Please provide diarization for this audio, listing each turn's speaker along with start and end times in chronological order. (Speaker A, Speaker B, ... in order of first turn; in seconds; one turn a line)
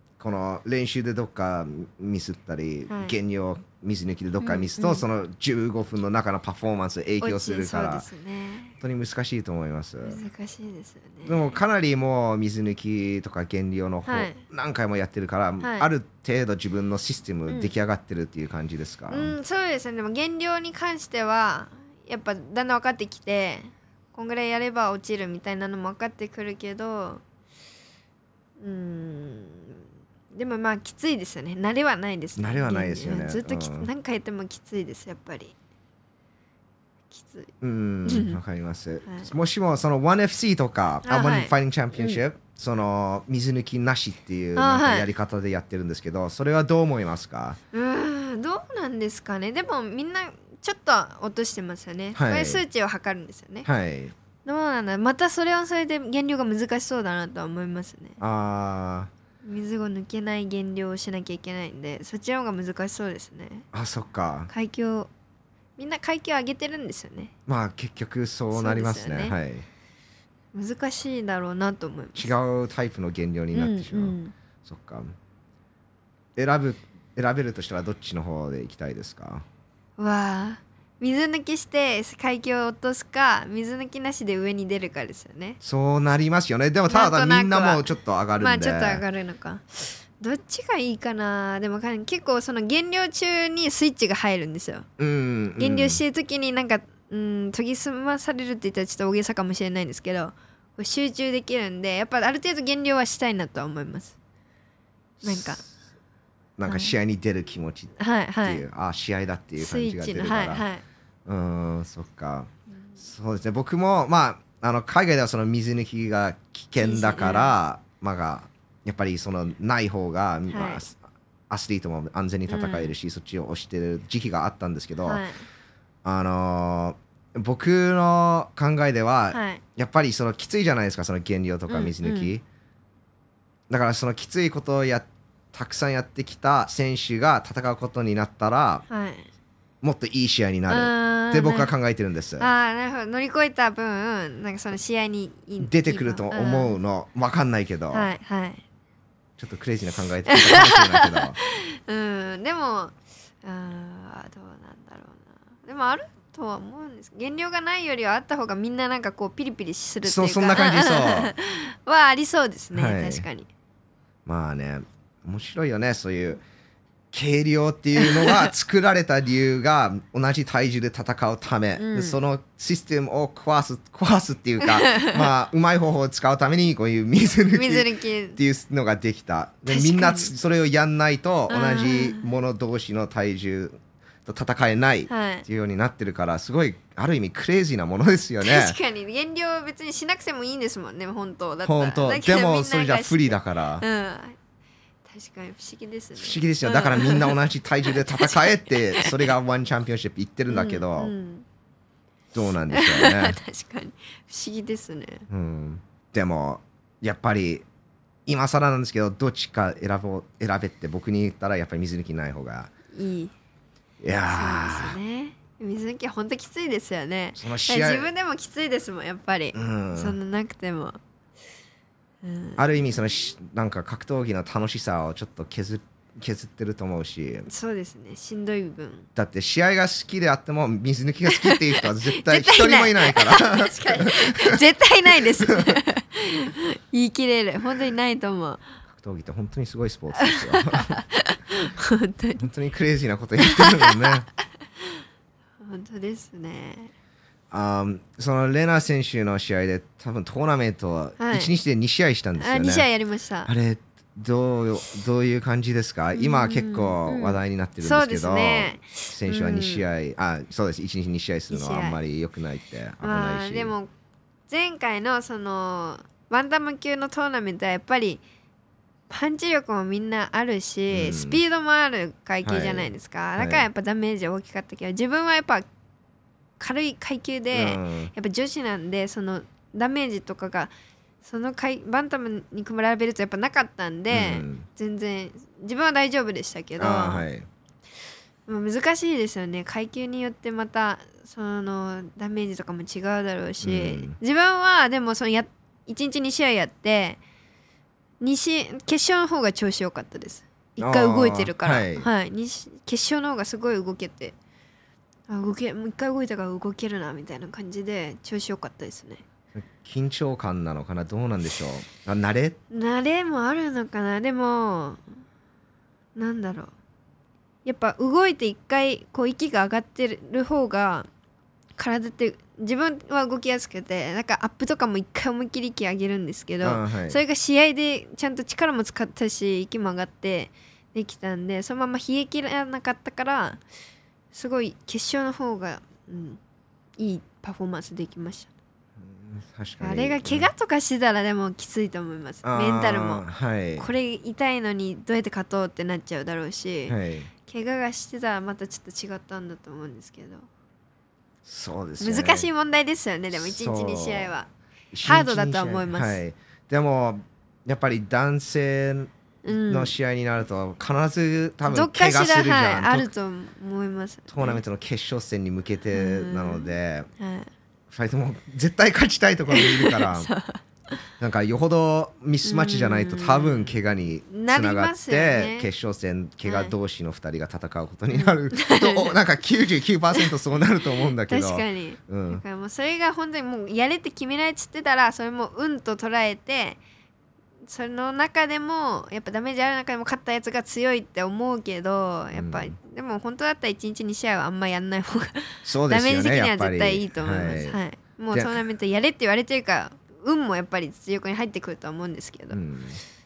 Speaker A: 0.2-8.1
Speaker B: 2.9-3.1
Speaker B: 4.4-5.0
Speaker B: 7.2-8.7
Speaker A: 8.8-10.2
Speaker B: 10.0-11.4
Speaker A: 11.2-19.3
Speaker B: 14.1-14.4
Speaker B: 15.6-15.9
Speaker B: 17.5-17.7
Speaker B: 19.1-27.2
Speaker B: 28.6-35.5
Speaker A: 32.4-33.9
Speaker B: 37.1-37.5
Speaker A: 37.6-47.6
Speaker B: 38.0-38.4
Speaker B: 39.0-39.3
Speaker B: 41.0-42.2
Speaker B: 44.5-45.1
Speaker B: 47.7-53.7
Speaker A: 52.1-52.6
Speaker A: 53.6-54.1
Speaker B: 54.4-58.2
Speaker A: 58.2-59.1
Speaker B: 59.4-63.6
Speaker A: 63.7-64.5
Speaker B: 64.5-65.1
Speaker B: 65.8-67.3
Speaker A: 67.5-69.6
Speaker B: 68.5-69.3
Speaker B: 70.5-72.3
Speaker A: 72.2-75.1
Speaker B: 73.5-74.3
Speaker A: 76.3-79.4
Speaker B: 80.0-85.6
Speaker A: 85.6-89.0
Speaker B: 86.9-94.8
Speaker A: 95.0-96.0
Speaker B: 95.6-104.1
Speaker A: 105.2-105.6
Speaker B: 105.2-105.6
Speaker A: 106.6-110.6
Speaker B: 106.7-106.9
Speaker B: 108.0-108.6
Speaker B: 109.6-110.8
Speaker A: 111.2-121.0
Speaker B: 116.8-117.5
Speaker B: 120.5-120.8
Speaker A: 121.5-125.2
Speaker B: 122.5-122.9
Speaker B: 125.0-125.4
Speaker A: 126.0-132.4
Speaker B: 129.3-129.6
Speaker B: 131.7-132.3
Speaker A: 133.7-138.8
Speaker B: 138.9-139.3
Speaker A: 139.8-142.5
Speaker B: 140.7-141.7
Speaker B: 142.4-146.8
Speaker A: 145.6-148.1
Speaker B: 147.9-148.6
Speaker A: 149.4-151.4
Speaker B: 150.3-163.5
Speaker A: 160.0-161.3
Speaker A: 162.7-163.2
Speaker A: 164.2-166.4
Speaker A: 167.1-188.8
Speaker B: 168.0-168.4
Speaker B: 171.8-172.2
Speaker B: 174.6-175.2
Speaker B: 177.5-178.4
Speaker B: 179.7-180.3
Speaker B: 181.5-182.2
Speaker B: 185.1-185.4
Speaker B: 188.4-194.4
Speaker A: 191.6-193.8
Speaker B: 195.1-197.4
Speaker A: 196.2-201.1
Speaker B: 197.9-199.3
Speaker B: 200.5-201.4
Speaker A: 202.3-203.4
Speaker B: 202.7-205.3
Speaker A: 205.3-207.7
Speaker A: 208.2-212.7
Speaker B: 212.9-213.3
Speaker A: 214.0-215.0
Speaker B: 214.3-221.0
Speaker A: 217.3-218.1
Speaker A: 219.5-220.2
Speaker B: 222.2-222.8
Speaker A: 222.6-227.5
Speaker B: 227.5-229.1
Speaker A: 229.2-234.6
Speaker B: 231.3-238.7
Speaker A: 235.2-235.8
Speaker A: 238.9-241.0
Speaker B: 240.2-242.4
Speaker A: 242.4-244.3
Speaker B: 243.4-244.1
Speaker B: 245.6-246.9
Speaker A: 247.5-252.8
Speaker B: 251.2-251.5
Speaker B: 252.4-253.5
Speaker A: 253.4-263.7
Speaker B: 256.1-259.9
Speaker B: 261.5-262.0
Speaker B: 263.0-263.9
Speaker B: 264.5-268.2
Speaker B: 269.1-275.7
Speaker A: 270.9-271.4
Speaker A: 272.4-273.7
Speaker B: 276.6-280.7
Speaker A: 277.5-278.1
Speaker B: 281.2-287.2
Speaker A: 284.1-284.6
Speaker A: 286.8-287.5
Speaker B: 288.4-297.2
Speaker A: 293.6-294.2
Speaker B: 298.2-304.3
Speaker A: 300.8-302.1
Speaker B: 305.3-309.2
Speaker A: 309.5-312.6
Speaker B: 312.7-315.0
Speaker B: 316.1-316.7
Speaker B: 317.6-321.1
Speaker B: 321.8-333.6
Speaker A: 326.6-327.2
Speaker B: 334.3-336.4
Speaker B: 337.0-338.5
Speaker A: 339.0-340.5
Speaker B: 339.8-343.2
Speaker A: 342.4-343.9
Speaker B: 343.8-350.5
Speaker A: 346.9-347.3
Speaker A: 351.4-352.5
Speaker B: 352.0-354.5
Speaker A: 353.3-354.3
Speaker A: 354.9-363.1
Speaker B: 355.0-356.2
Speaker B: 359.4-359.9
Speaker B: 361.6-364.6
Speaker A: 364.3-367.1
Speaker B: 365.9-367.5
Speaker A: 367.9-370.3
Speaker B: 369.5-370.6
Speaker A: 371.2-382.4
Speaker B: 372.4-373.8
Speaker B: 374.3-375.7
Speaker B: 376.4-376.7
Speaker B: 378.1-379.1
Speaker B: 381.3-386.8
Speaker B: 387.7-402.6
Speaker A: 392.3-392.7
Speaker A: 395.6-397.8
Speaker A: 398.3-398.6
Speaker A: 402.5-403.0